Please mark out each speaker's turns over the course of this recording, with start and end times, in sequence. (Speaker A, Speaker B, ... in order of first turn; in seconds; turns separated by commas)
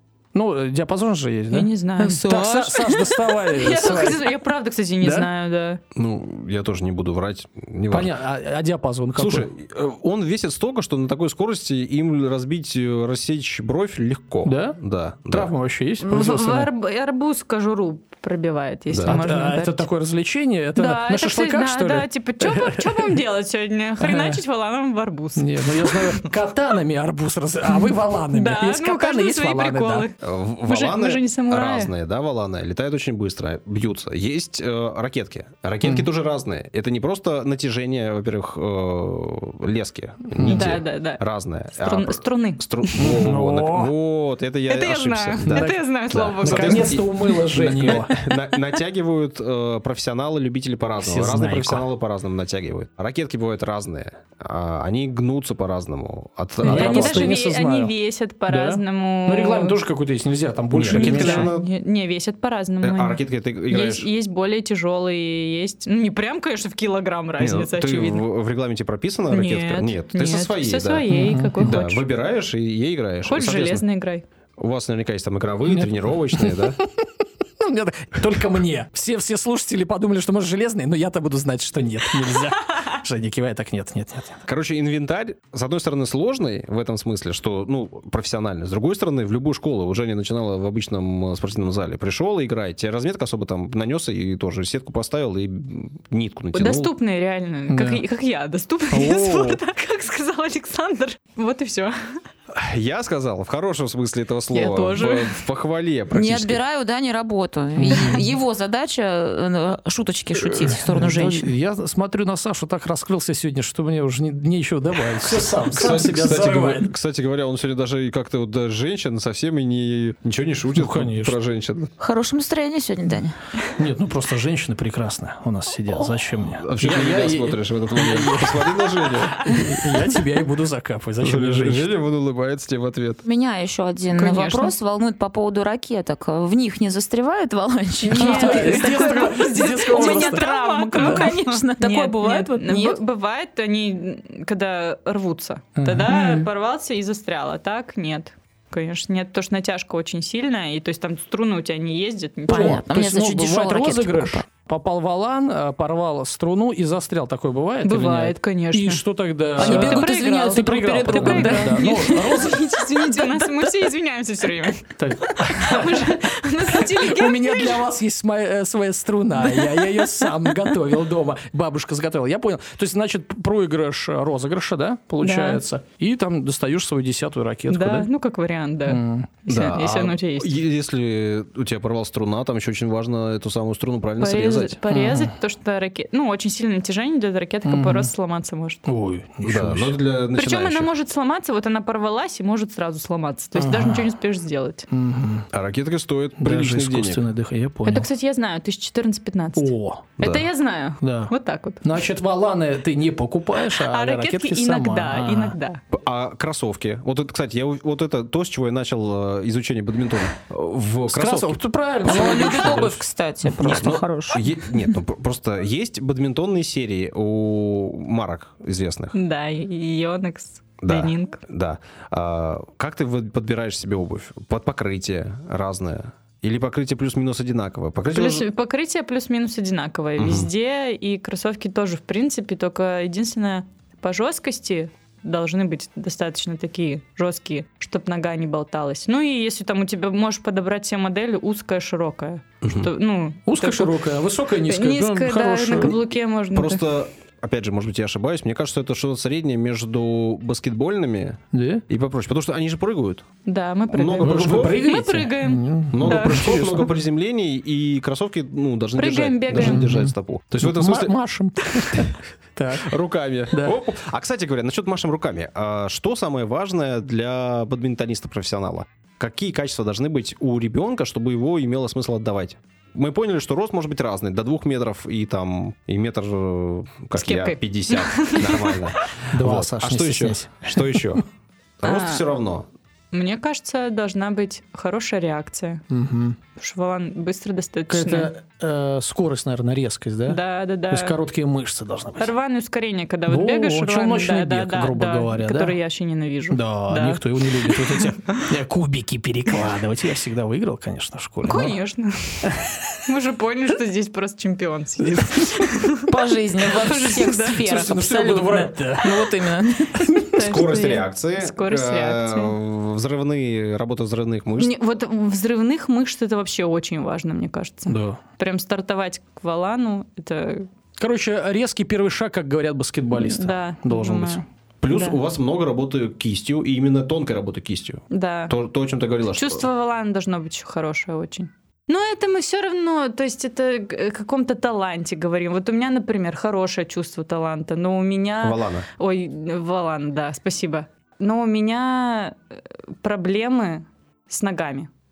Speaker A: 0.3-4.3, Speaker B: 1.5-5.8, Speaker C: 2.0-3.1, Speaker A: 5.0-5.3, Speaker D: 6.0-8.1, Speaker A: 7.9-9.5, Speaker D: 9.2-15.5, Speaker A: 14.4-14.8, Speaker A: 15.3-16.7, Speaker B: 16.0-19.9, Speaker D: 18.9-19.2, Speaker A: 19.0-23.2, Speaker B: 20.8-26.3, Speaker A: 24.0-24.4, Speaker A: 25.4-30.1, Speaker B: 27.7-31.9, Speaker D: 30.2-57.4, Speaker A: 40.3-40.8, Speaker B: 40.4-41.2, Speaker B: 41.8-43.1, Speaker A: 43.0-43.9, Speaker B: 44.7-47.1, Speaker A: 45.5-45.8, Speaker A: 46.4-48.2, Speaker A: 51.0-51.9, Speaker B: 56.6-59.8, Speaker A: 56.6-57.9, Speaker A: 58.5-61.5, Speaker D: 60.7-61.7, Speaker B: 60.9-68.2, Speaker D: 62.8-64.1, Speaker D: 67.4-73.8, Speaker B: 69.3-72.0, Speaker A: 71.1-71.8, Speaker B: 73.3-74.2, Speaker D: 74.6-76.8, Speaker A: 75.7-84.4, Speaker D: 84.5-96.9, Speaker B: 96.5-102.2, Speaker A: 97.7-98.0, Speaker A: 98.9-99.6, Speaker D: 102.5-106.6, Speaker B: 104.5-105.4, Speaker C: 106.1-111.5, Speaker A: 107.8-108.3, Speaker A: 110.4-116.9, Speaker D: 115.6-121.9, Speaker A: 120.8-121.4, Speaker C: 122.0-123.4, Speaker A: 123.8-131.9, Speaker D: 126.6-129.5, Speaker B: 129.1-130.1, Speaker D: 131.2-133.2, Speaker C: 133.2-143.0, Speaker B: 134.2-134.8, Speaker B: 138.0-152.8, Speaker A: 138.1-141.3, Speaker A: 145.8-146.1, Speaker C: 146.1-146.5, Speaker C: 152.5-154.4, Speaker A: 152.5-162.8, Speaker B: 157.8-159.0, Speaker B: 159.6-167.9, Speaker C: 159.6-162.3, Speaker A: 165.0-178.1, Speaker B: 169.4-170.8, Speaker B: 175.2-175.6, Speaker B: 177.7-180.5, Speaker A: 178.9-179.3, Speaker D: 179.5-184.8, Speaker B: 184.2-188.8, Speaker A: 184.9-185.3, Speaker A: 187.7-188.1, Speaker A: 188.9-190.0, Speaker D: 189.4-190.9, Speaker B: 190.3-194.9, Speaker A: 193.6-194.1, Speaker A: 194.9-195.5, Speaker D: 195.5-197.2, Speaker A: 196.4-198.1, Speaker B: 197.8-201.9, Speaker A: 199.6-200.1, Speaker D: 200.2-200.4, Speaker A: 201.0-205.6, Speaker B: 203.7-205.8, Speaker D: 205.9-211.6, Speaker A: 211.1-213.6, Speaker C: 212.0-214.9, Speaker D: 213.6-219.2, Speaker B: 219.1-221.4, Speaker D: 220.8-228.4, Speaker B: 228.1-244.0, Speaker D: 230.2-230.5, Speaker D: 242.6-242.9, Speaker A: 243.5-246.0, Speaker B: 244.6-246.8, Speaker D: 246.5-253.2, Speaker A: 251.5-251.8, Speaker B: 253.4-256.9, Speaker D: 253.9-254.8, Speaker A: 254.2-256.9, Speaker D: 255.9-261.1, Speaker B: 259.0-259.9, Speaker A: 259.5-262.9, Speaker D: 261.9-262.1, Speaker D: 262.8-281.2, Speaker A: 263.5-263.8, Speaker B: 277.2-279.1, Speaker A: 279.3-281.2, Speaker D: 281.8-282.7, Speaker B: 281.8-282.2, Speaker B: 283.1-285.8, Speaker A: 285.9-286.4, Speaker B: 286.6-288.3, Speaker A: 287.9-292.3, Speaker B: 290.3-291.2, Speaker B: 292.2-298.4, Speaker A: 293.3-295.8, Speaker A: 296.5-301.8, Speaker B: 301.4-306.1, Speaker A: 302.4-302.8, Speaker A: 305.0-305.7, Speaker C: 306.1-310.0, Speaker B: 306.6-307.7, Speaker A: 307.6-310.5, Speaker B: 310.3-312.5, Speaker D: 310.4-314.7, Speaker B: 314.6-320.7, Speaker A: 317.9-318.2, Speaker A: 321.0-324.4, Speaker B: 323.1-325.2, Speaker D: 324.8-329.7, Speaker B: 328.1-328.5, Speaker B: 329.4-342.4, Speaker D: 338.4-338.9, Speaker B: 343.0-344.9